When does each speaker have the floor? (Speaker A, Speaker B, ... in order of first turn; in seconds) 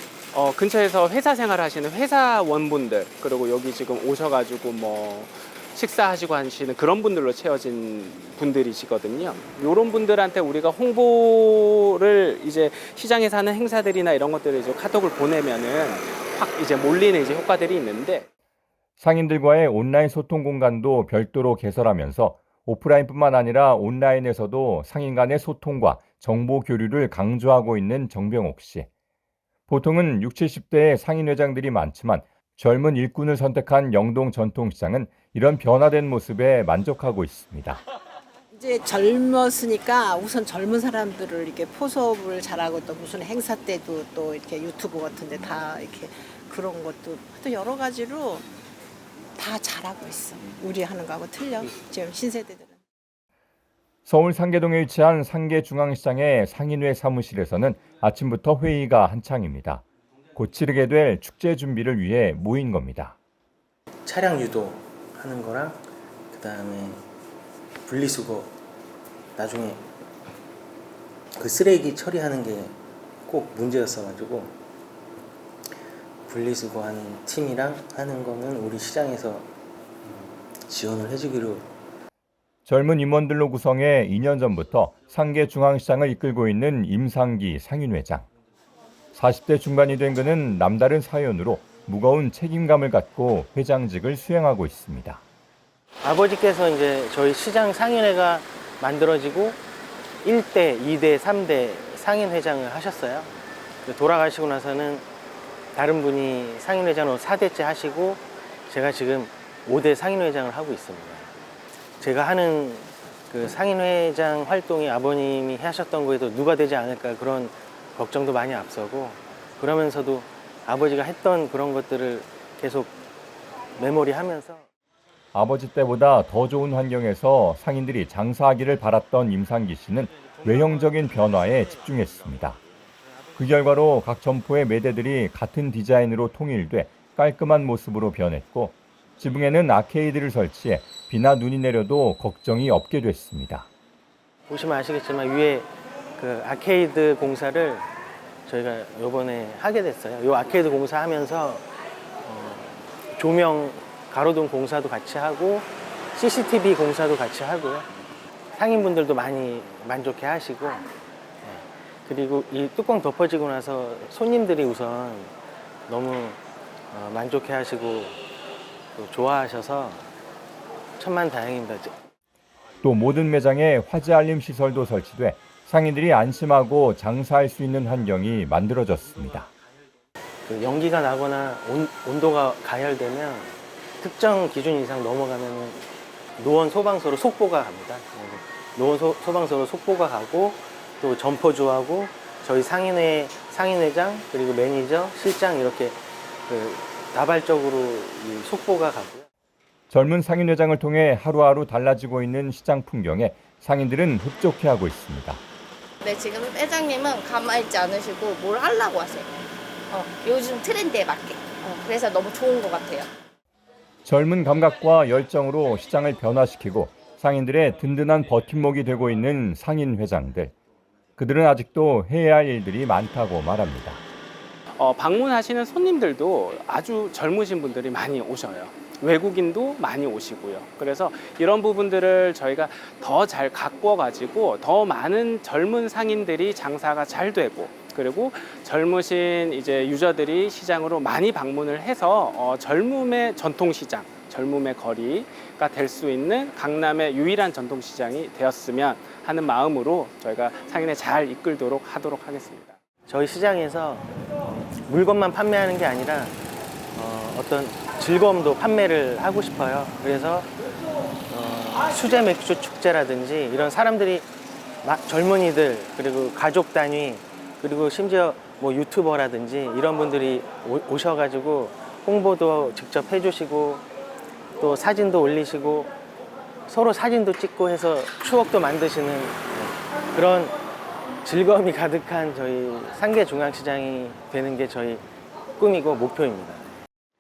Speaker A: 0.3-18.3, 224.8-252.8
Speaker B: 19.0-28.9, 29.7-37.8, 54.1-59.8, 60.4-63.2, 82.7-88.3, 89.1-95.2, 125.3-132.6, 133.4-143.7, 172.8-179.5, 199.9-205.4, 214.1-220.6, 221.2-224.0
Speaker C: 38.5-48.5, 49.4-52.8
Speaker D: 64.0-65.8, 66.3-67.0, 67.9-68.5, 69.4-69.9, 71.3-74.6, 76.3-79.5, 80.1-81.7, 96.0-99.6, 100.2-103.3, 103.8-105.0, 105.8-111.3, 112.0-122.9, 123.8-124.6, 144.5-147.9, 148.5-151.7, 152.2-157.9, 158.6-160.9, 161.4-165.3, 165.9-166.4, 166.9-168.2, 168.9-170.0, 171.0-172.0, 180.5-185.8, 186.4-199.3, 253.1-256.4, 256.9-260.5, 261.3-264.3, 264.8-273.8, 274.6-275.9, 276.7-280.6, 281.2-285.0, 285.6-286.7
Speaker E: 206.0-209.3, 209.9-213.1